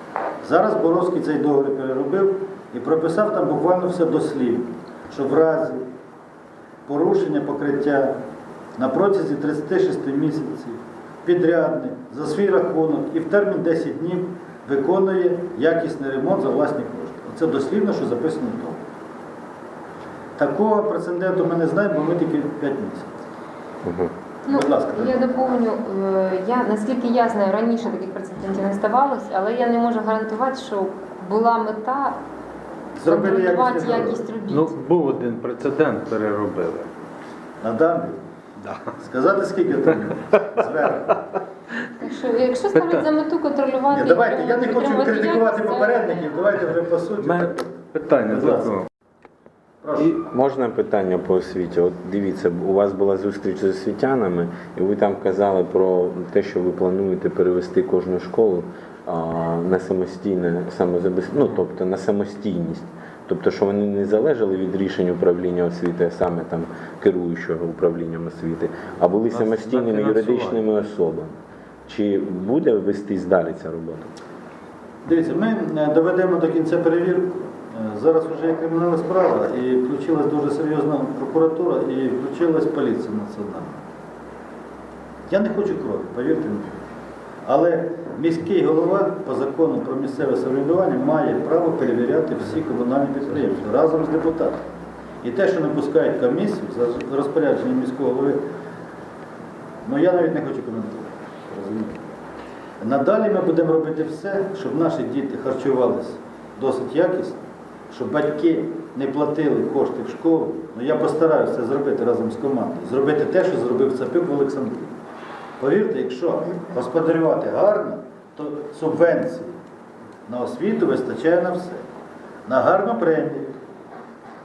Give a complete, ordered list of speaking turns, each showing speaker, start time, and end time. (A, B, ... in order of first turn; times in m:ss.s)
0:00.4-0:05.8 A
0:06.9-0:08.1 A
0:08.8-0:18.8 A
0:20.4-0:23.1 A
0:23.8-0:24.1 B
0:24.4-0:32.2 C
0:24.5-0:25.1 A
0:33.0-0:34.2 A
0:33.0-0:34.8 C
0:34.6-0:36.9 D
0:37.6-0:38.2 A
0:38.7-0:41.2 A
0:42.0-0:46.4 C
0:43.9-0:48.8 A
0:47.2-0:48.6 D
0:49.8-0:50.2 A
0:50.2-1:11.3 B
1:09.3-1:10.4 D
1:11.9-1:14.1 B
1:15.0-1:23.8 A
1:25.3-1:26.8 A
1:27.4-1:34.6 A
1:35.2-1:38.4 A
1:39.8-1:42.0 A
1:42.8-1:47.4 A
1:47.9-1:54.9 A
1:55.6-1:59.5 A
2:00.3-2:01.8 A
2:02.4-2:03.6 A